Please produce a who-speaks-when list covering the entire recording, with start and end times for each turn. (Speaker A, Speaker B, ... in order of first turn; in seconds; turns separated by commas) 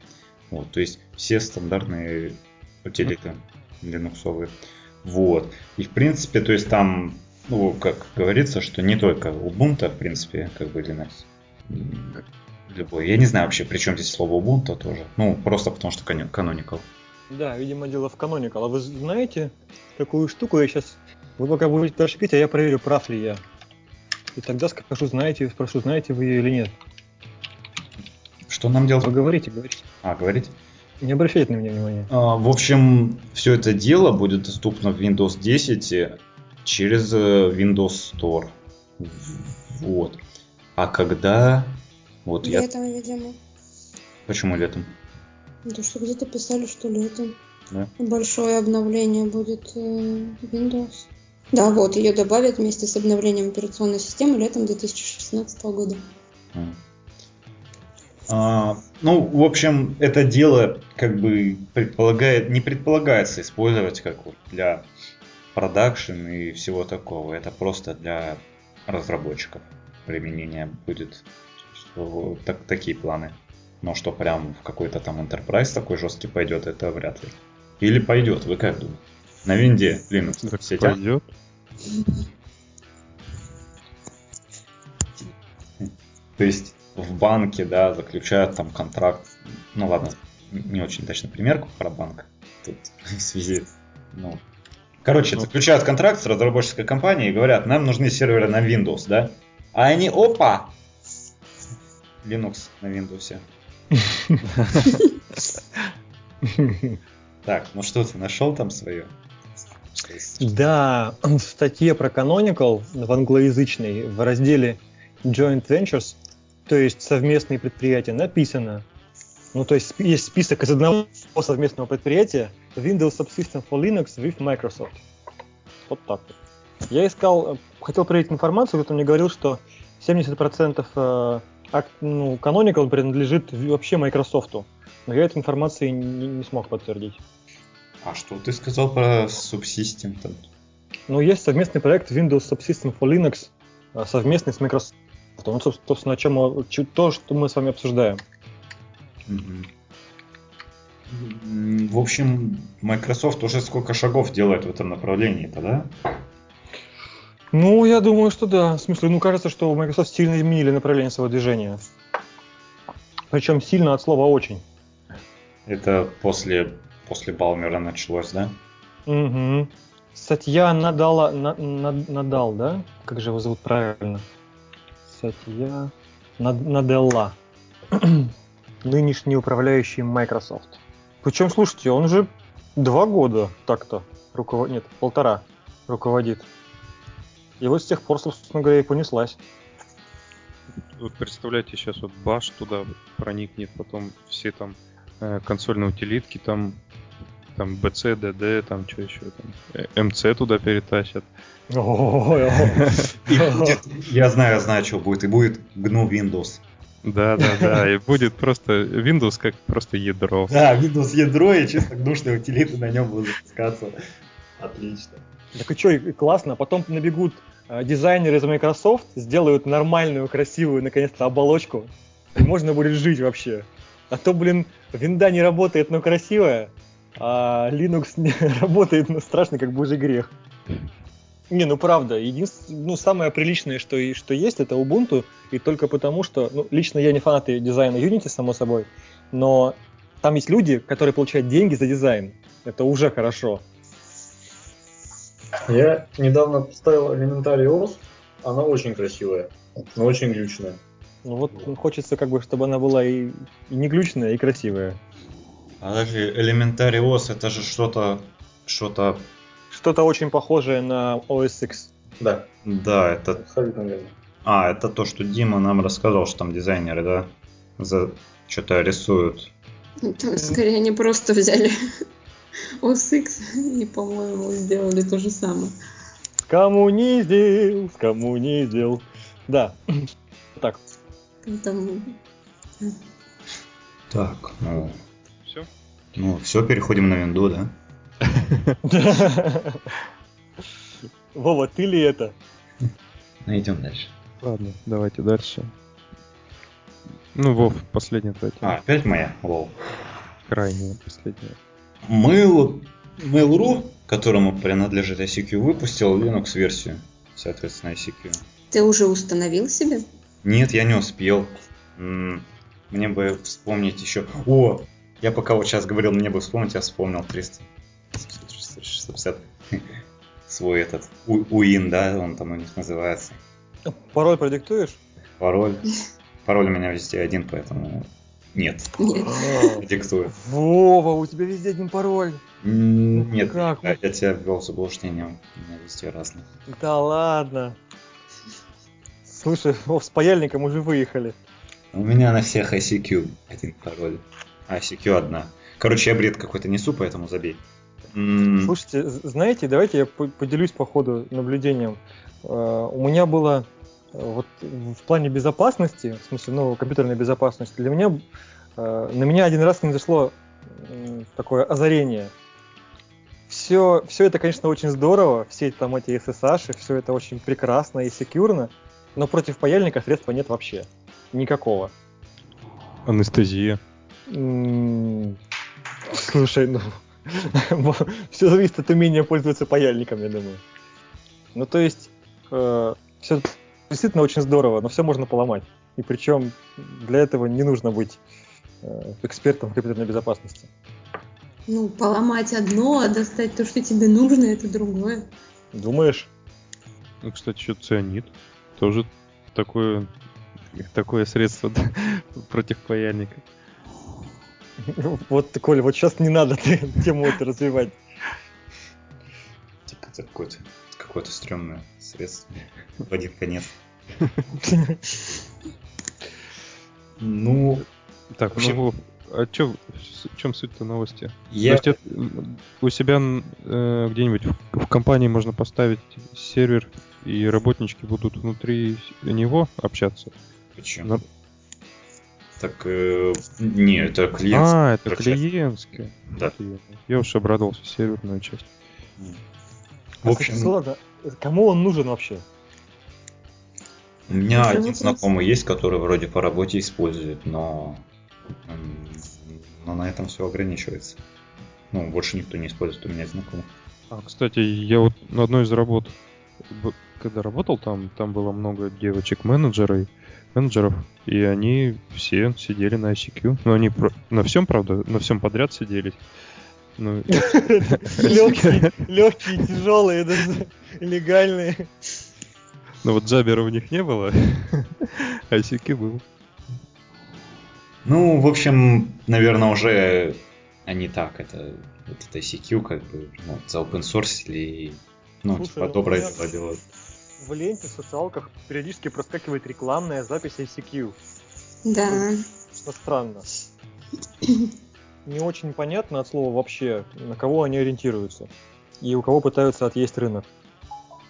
Speaker A: 0.5-16.9, Speaker B: 17.3-23.4, Speaker B: 24.3-26.7, Speaker A: 28.5-29.1, Speaker B: 29.0-29.8, Speaker A: 30.0-30.5, Speaker B: 31.0-32.1, Speaker A: 32.1-40.2, Speaker A: 40.8-42.7, Speaker C: 42.4-43.4, Speaker A: 44.2-45.0, Speaker C: 45.6-47.4, Speaker C: 48.0-56.0, Speaker A: 56.5-56.8, Speaker A: 58.3-64.9, Speaker A: 65.5-81.0, Speaker D: 80.4-81.3, Speaker A: 85.2-94.4, Speaker A: 95.0-100.7, Speaker A: 102.2-103.4, Speaker B: 104.0-104.4, Speaker B: 106.5-107.0, Speaker A: 107.4-109.1, Speaker A: 109.9-110.5, Speaker B: 110.4-118.8, Speaker B: 119.5-125.0, Speaker B: 125.9-126.3, Speaker B: 126.9-137.2, Speaker A: 138.0-140.5, Speaker B: 141.1-148.2, Speaker A: 149.3-149.7, Speaker A: 151.1-155.9, Speaker B: 157.5-161.8, Speaker B: 163.3-164.6, Speaker A: 165.7-168.6, Speaker B: 169.1-174.2, Speaker B: 175.1-177.4, Speaker B: 177.9-178.3, Speaker B: 178.8-186.5, Speaker B: 187.6-189.4, Speaker D: 190.9-196.8, Speaker D: 197.6-201.2, Speaker B: 201.7-203.8, Speaker A: 203.3-206.6, Speaker D: 207.0-210.6, Speaker B: 207.4-207.8, Speaker A: 210.5-213.9, Speaker A: 214.6-215.2, Speaker B: 215.6-230.3, Speaker B: 231.5-243.6, Speaker E: 245.7-250.8, Speaker B: 251.2-255.0, Speaker A: 255.8-259.3, Speaker B: 259.7-261.9, Speaker E: 262.2-262.5, Speaker A: 262.6-263.4, Speaker E: 263.4-264.1, Speaker A: 264.4-269.5, Speaker C: 270.0-271.7, Speaker C: 272.8-275.7, Speaker B: 276.5-280.8, Speaker C: 281.4-282.2, Speaker A: 284.1-285.0, Speaker A: 286.1-287.7, Speaker D: 288.3-288.7, Speaker B: 288.8-289.9, Speaker B: 291.3-292.3, Speaker A: 293.4-294.1, Speaker D: 294.4-295.7, Speaker D: 297.3-298.7, Speaker A: 298.6-299.7, Speaker D: 300.5-301.6, Speaker A: 302.1-308.4, Speaker C: 308.7-310.0, Speaker A: 310.4-319.9, Speaker A: 320.5-323.4, Speaker B: 323.9-325.0, Speaker A: 325.4-325.9, Speaker A: 326.4-329.1, Speaker C: 329.0-329.7, Speaker B: 329.3-329.8, Speaker A: 329.8-330.3, Speaker B: 330.4-332.4, Speaker A: 332.6-336.4, Speaker B: 333.2-334.0, Speaker B: 336.7-337.8, Speaker B: 339.2-341.4, Speaker A: 341.9-348.7, Speaker B: 348.6-358.2, Speaker B: 358.8-362.3, Speaker B: 363.5-371.9, Speaker D: 373.1-373.8, Speaker B: 374.3-375.4, Speaker B: 376.1-380.6, Speaker B: 381.5-388.2, Speaker B: 388.8-390.7, Speaker C: 391.7-395.2, Speaker B: 395.7-396.3, Speaker D: 397.2-400.1, Speaker D: 400.7-403.4, Speaker B: 404.8-408.0, Speaker A: 409.9-413.7, Speaker B: 414.6-415.0, Speaker A: 417.2-417.9, Speaker D: 418.3-430.3, Speaker A: 418.5-418.8, Speaker A: 421.5-421.9, Speaker A: 430.8-431.1, Speaker A: 432.6-435.4, Speaker D: 434.5-438.7, Speaker A: 440.2-440.7, Speaker B: 440.2-442.4, Speaker A: 444.3-448.0, Speaker C: 444.5-445.2, Speaker A: 448.6-451.2, Speaker A: 451.9-453.7, Speaker D: 454.1-456.1, Speaker D: 456.7-466.2, Speaker D: 467.0-468.8, Speaker B: 467.3-471.9, Speaker D: 473.0-476.2, Speaker A: 478.0-486.8, Speaker B: 485.5-486.4, Speaker B: 487.4-491.2, Speaker C: 491.9-492.4, Speaker B: 492.1-493.4, Speaker B: 495.2-498.5, Speaker B: 499.0-500.4